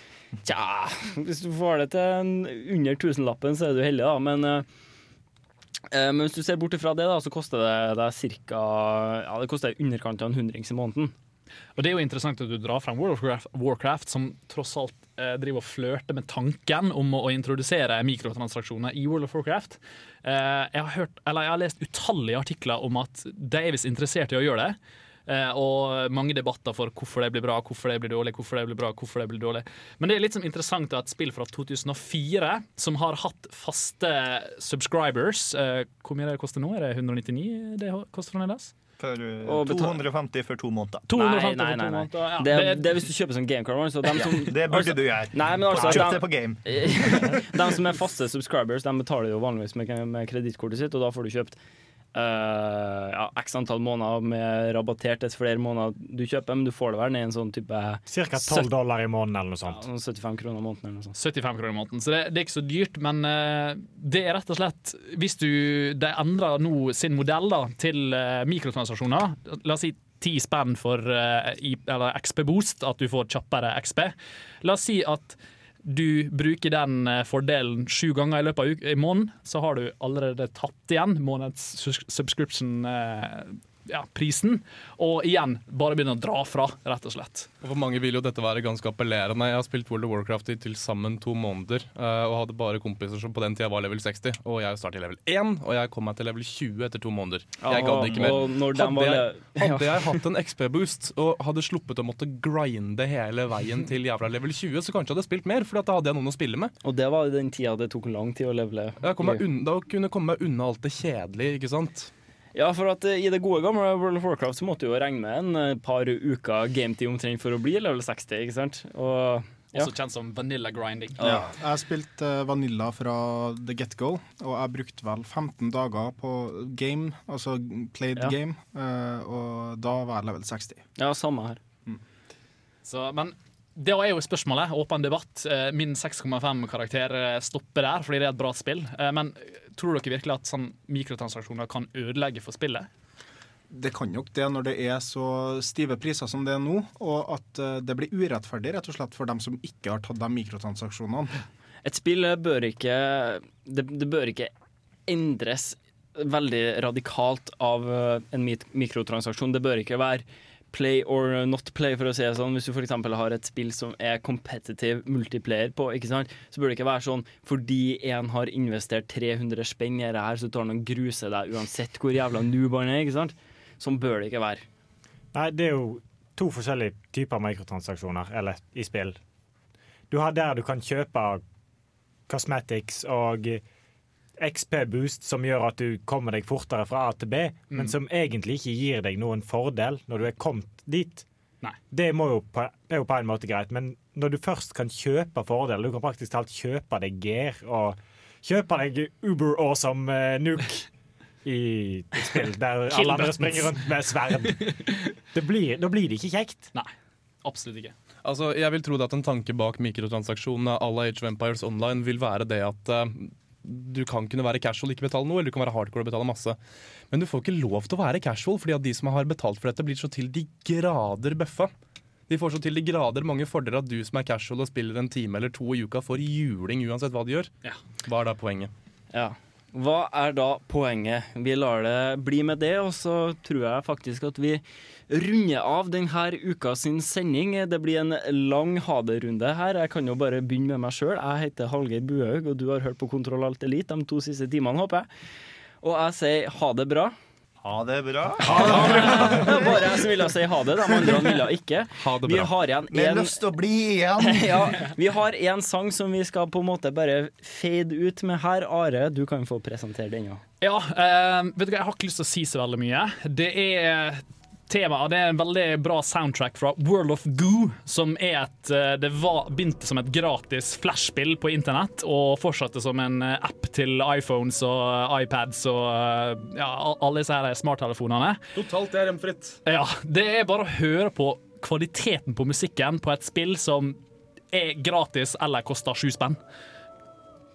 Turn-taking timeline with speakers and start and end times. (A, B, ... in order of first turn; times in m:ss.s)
0:00.4-0:04.7 A
0:05.9-0:11.2 A
0:11.8-0:38.7 B
0:39.0-0:41.0 C
0:39.4-0:40.0 A
0:41.1-0:43.0 B
0:41.1-0:51.6 A
0:44.2-0:47.4 C
0:52.2-0:58.6 A
0:58.1-0:59.8 D
0:59.7-1:01.2 A
1:01.2-1:27.5 B
1:27.6-1:46.7 E
1:37.6-1:40.2 A
1:46.8-1:49.4 A
1:49.0-1:52.1 E
1:52.6-1:59.9 A
1:59.7-2:01.4 B
2:01.2-2:01.5 A
2:01.2-2:10.8 F
2:11.0-2:11.6 A
2:12.8-2:22.9 B
2:23.7-2:31.3 F
2:31.8-2:34.5 A
2:35.1-2:54.6 A
2:55.3-2:59.2 D
3:00.1-3:01.4 D
3:02.3-3:03.6 D
3:04.4-3:11.2 D
3:11.9-3:20.9 D
3:21.4-3:26.7 D
3:22.9-3:23.7 B
3:27.4-3:28.0 B
3:28.2-3:36.6 E
3:37.1-3:41.7 E
3:42.3-3:47.5 E
3:48.0-3:48.7 E
3:49.1-4:05.1 A
4:05.8-4:07.1 A
4:07.6-4:10.1 C
4:08.5-4:13.4 A
4:08.6-4:09.2 E
4:12.0-4:12.5 E
4:12.9-4:14.6 C
4:14.2-4:20.4 A
4:20.6-4:38.4 B
4:38.6-4:39.6 E
4:39.6-4:44.0 B
4:44.5-4:46.4 B